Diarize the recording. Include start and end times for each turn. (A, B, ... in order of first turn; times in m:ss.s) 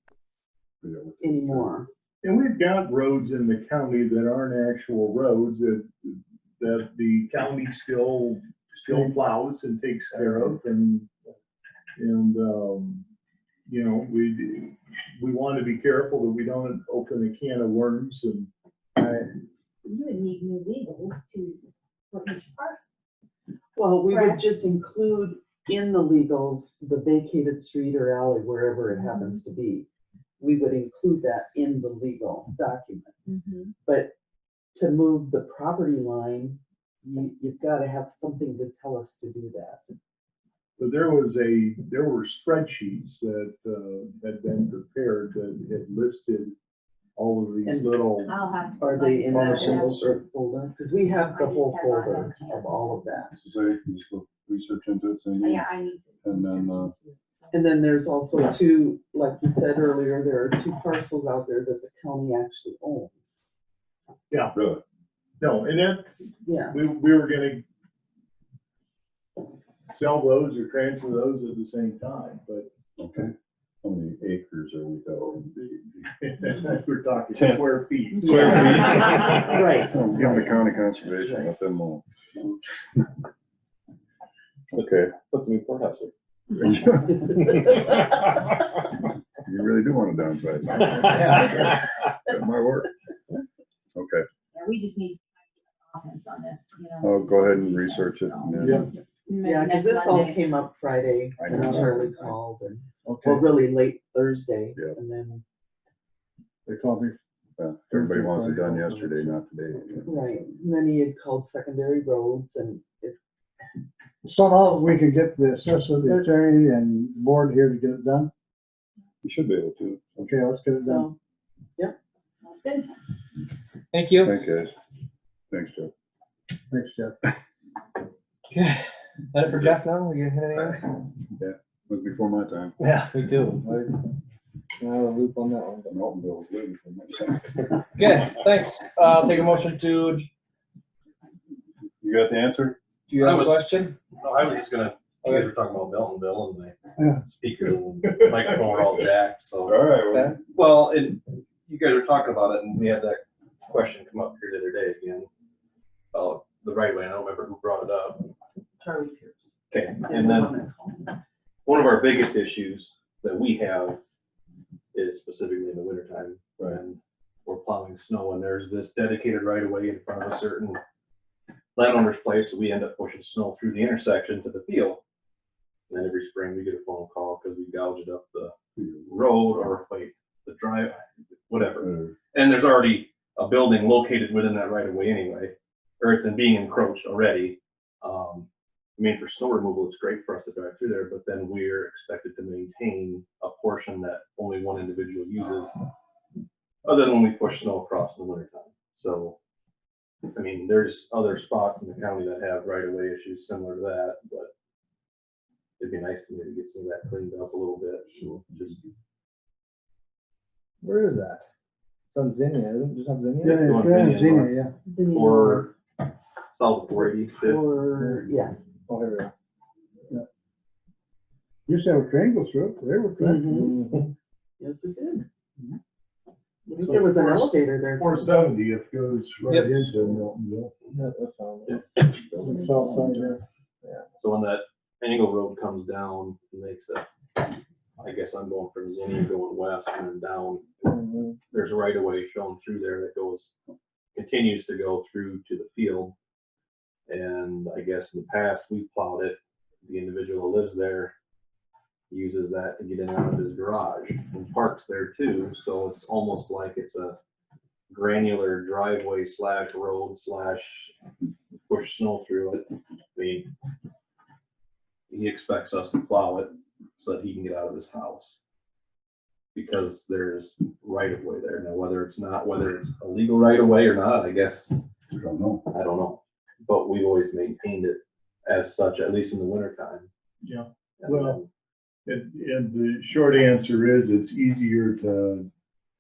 0:00.8-0:01.7 A
0:01.2-0:01.9 B
0:02.2-0:11.1 C
0:12.0-0:13.1 C
0:13.7-0:18.5 C
0:19.0-0:19.3 D
0:19.8-0:22.8 E
0:23.8-0:29.9 B
0:24.1-0:24.4 E
0:28.9-0:29.4 E
0:30.4-0:33.2 B
0:33.3-0:33.7 E
0:33.8-0:34.1 B
0:34.8-0:39.9 B
0:40.8-0:46.6 C
0:47.2-0:48.4 C
0:47.6-0:47.9 B
0:48.2-0:50.0 E
0:48.8-0:53.3 B
0:49.3-0:50.2 C
0:51.1-0:53.2 E
0:53.3-0:55.6 A
0:55.4-0:57.7 E
0:56.2-0:56.9 A
0:57.5-1:03.4 B
1:04.5-1:04.8 A
1:05.4-1:06.1 C
1:06.4-1:06.8 B
1:06.7-1:07.6 C
1:09.9-1:12.7 C
1:13.0-1:15.5 A
1:15.3-1:19.2 C
1:17.3-1:22.0 A
1:18.2-1:21.5 B
1:20.1-1:20.4 C
1:24.7-1:25.1 A
1:24.7-1:26.1 F
1:26.6-1:27.2 A
1:29.4-1:32.9 A
1:34.0-1:34.2 A
1:34.5-1:35.2 E
1:35.8-1:40.4 E
1:37.0-1:38.9 A
1:39.3-1:45.4 B
1:41.4-1:42.4 A
1:46.7-1:47.2 G
1:47.6-1:50.1 A
1:47.9-1:49.3 G
1:50.0-1:53.2 B
1:54.2-1:58.3 G
1:56.0-1:56.5 B
1:59.2-2:00.2 A
2:00.2-2:01.1 G
2:00.8-2:01.2 B
2:02.4-2:03.0 E
2:03.9-2:04.4 D
2:04.2-2:04.7 A
2:05.5-2:05.9 A
2:06.7-2:07.2 G
2:08.5-2:10.8 D
2:11.4-2:12.8 A
2:12.8-2:14.0 D
2:14.8-2:15.9 D
2:15.9-2:17.7 A
2:18.0-2:20.3 D
2:22.0-2:22.8 A
2:23.1-2:23.9 D
2:23.2-2:29.8 F
2:29.6-2:30.4 A
2:30.6-2:35.3 F
2:36.1-2:38.3 F
2:38.8-2:39.5 B
2:39.7-2:40.5 F
2:40.0-2:41.1 B
2:41.7-2:44.0 F
2:44.9-2:50.8 F
2:51.8-2:55.0 F
2:55.9-2:58.5 F
2:58.8-2:59.1 A
2:59.1-3:08.5 F
3:01.8-3:02.2 A
3:09.0-3:15.8 F
3:16.8-3:19.4 F
3:20.3-3:24.5 F
3:25.8-3:28.8 F
3:30.8-3:31.4 D
3:32.1-3:33.7 D
3:33.4-3:34.7 G
3:33.4-3:35.7 F
3:34.8-3:35.7 B
3:36.6-3:37.6 F
3:37.4-3:38.6 B
3:38.9-3:39.3 D
3:41.7-3:43.5 G
3:43.2-3:43.8 B
3:43.5-3:44.1 D
3:44.6-3:45.2 B
3:46.7-3:48.5 B
3:46.7-3:50.7 C
3:49.5-3:49.9 D
3:50.9-3:51.9 D
3:52.4-3:53.4 G
3:54.2-3:57.1 F
3:58.0-4:00.7 F
4:00.8-4:01.4 D
4:01.5-4:03.5 F
4:04.2-4:06.1 F
4:07.1-4:11.1 F
4:12.1-4:17.2 F
4:17.9-4:20.9 F
4:21.7-4:23.5 F
4:25.1-4:28.4 F
4:29.6-4:34.8 F
4:35.1-4:35.6 A
4:35.7-4:40.1 F
4:40.4-4:41.4 C
4:41.0-4:41.5 F
4:42.1-4:45.5 C